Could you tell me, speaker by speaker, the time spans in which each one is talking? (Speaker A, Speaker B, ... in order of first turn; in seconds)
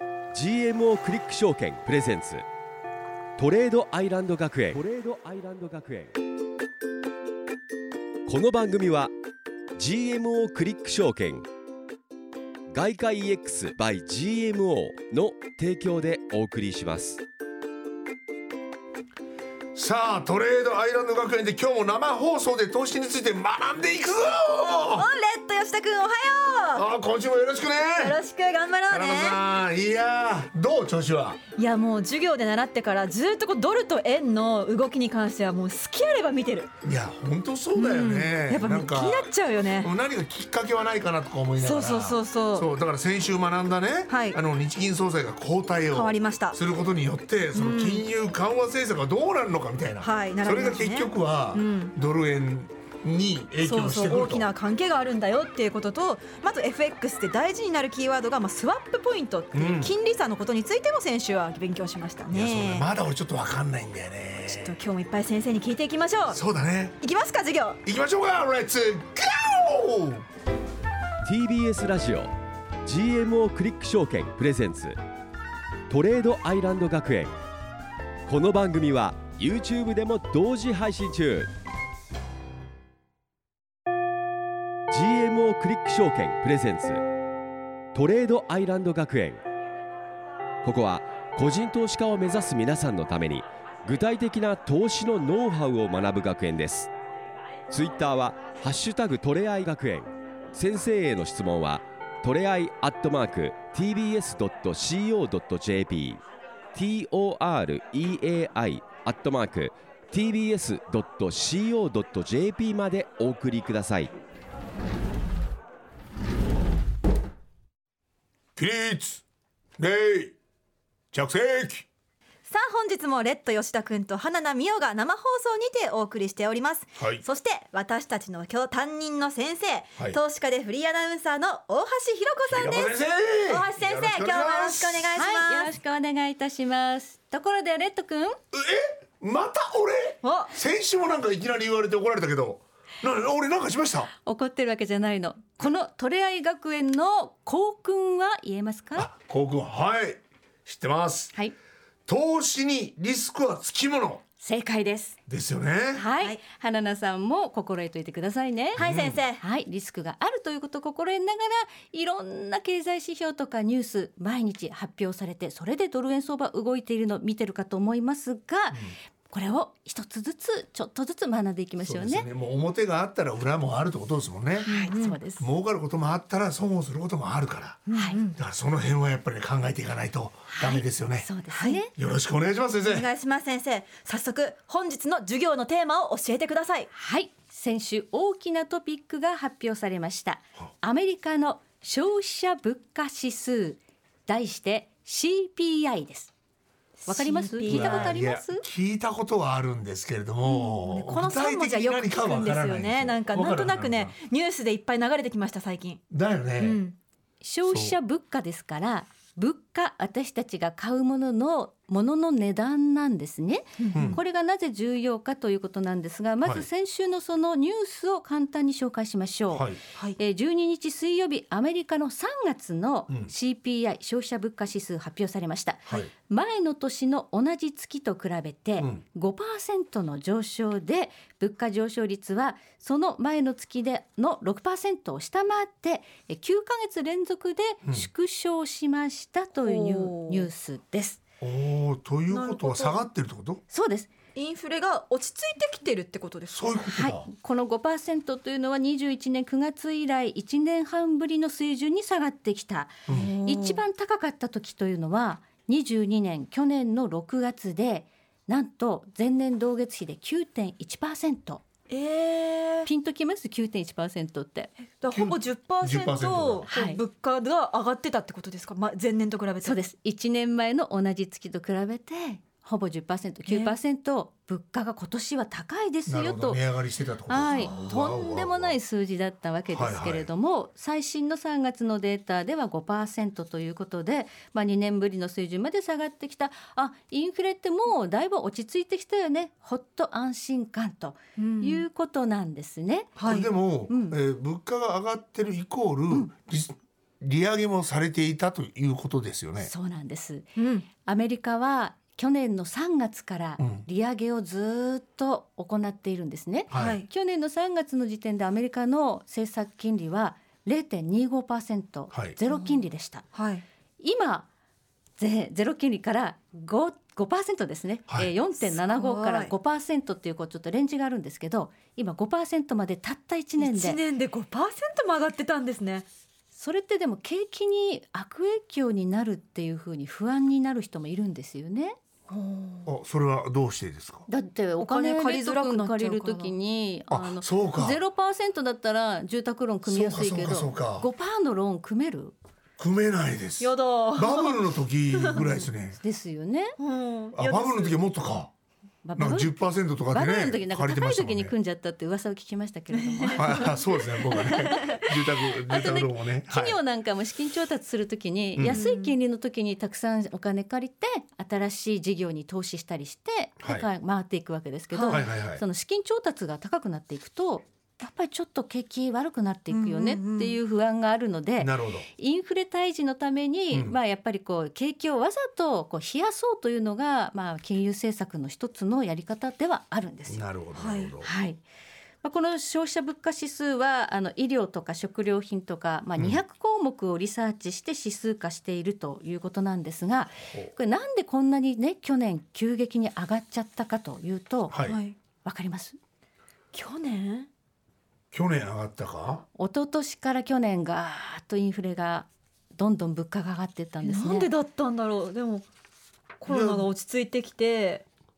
Speaker A: 0.3-2.4, 3.4-6.2, 8.2-9.1, 9.8-11.4, 12.7-17.2, 71.2-72.3, 72.8-75.0, 75.9-77.3, 78.2-81.5, 84.9-87.0, 87.9-89.4, 90.6-96.9, 97.7-106.2, 106.7-114.1
Speaker B: 19.7-25.1, 26.7-28.2, 28.9-31.4, 36.8-54.5, 59.5-59.9, 62.3-64.8, 66.3-67.0, 67.8-70.2, 118.5-119.2, 119.8-120.3, 121.1-121.8, 127.0-127.2, 132.5-135.2, 138.5-144.1, 148.9-151.3, 152.1-154.2, 155.3-156.0, 158.8-159.2, 171.8-174.7, 175.4-181.3, 181.9-183.1, 197.7-204.1, 206.1-206.8, 207.7-207.9, 213.9-214.2, 219.5-219.8, 225.8-226.1, 241.4-243.6, 246.5-247.3, 253.1-253.3, 265.1-266.7, 276.1-278.8, 279.7-280.3, 293.2-299.7, 303.6-303.9, 306.7-307.0, 332.9-334.3, 337.1-338.0, 339.8-341.1, 342.8-346.0, 347.3-348.5, 349.2-351.5, 353.4-356.8, 358.6-358.8, 363.6-363.9, 365.1-365.6, 371.6-372.1, 373.7-374.0, 380.3-381.3, 394.7-395.0, 398.3-399.4, 406.5-406.9
Speaker C: 24.9-26.8, 28.0-29.4, 31.6-36.7, 37.7-39.9, 41.6-42.7, 44.1-44.4, 45.9-46.6, 47.5-48.0, 50.0-51.9, 53.6-62.9, 64.5-66.4, 67.0-67.8, 122.5-132.9, 133.5-135.7, 140.2-140.5, 158.8-159.4, 174.7-175.2, 177.9-178.4, 182.8-186.9, 197.0-198.2, 200.4-206.0, 206.6-206.9, 213.8-214.2, 239.6-240.5, 242.3-243.0, 244.3-246.8, 253.1-253.8, 261.9-262.9, 265.0-269.8, 273.5-273.7, 291.4-291.8, 293.2-293.5, 300.6-300.8, 306.7-307.1, 312.5-312.8, 313.3-313.6, 318.6-319.5, 323.6-326.1, 332.3-332.9, 334.8-336.5, 343.6-344.6, 345.2-345.7, 346.8-348.0, 352.9-355.1, 358.7-359.1, 364.9-365.2, 369.7-370.6, 380.8-381.1, 394.8-395.1, 396.7-397.5, 404.0-405.6, 406.4-408.0
Speaker D: 135.1-138.4, 144.2-149.1, 154.4-155.2, 155.9-158.8, 159.4-172.3, 174.7-175.4, 177.9-178.2, 180.6-181.9, 186.9-196.3, 197.1-198.6, 207.4-241.2, 243.7-244.1, 246.9-261.6, 262.8-264.7, 266.6-267.0, 269.6-276.6, 277.2-293.1, 293.9-294.2, 299.6-313.2, 314.0-314.5, 315.2-324.0, 326.5-331.9, 334.3-342.3, 346.0-346.8, 349.0-349.5, 350.1-353.8, 355.7-380.4, 381.2-381.6, 382.2-394.9, 395.4-396.0, 399.6-404.5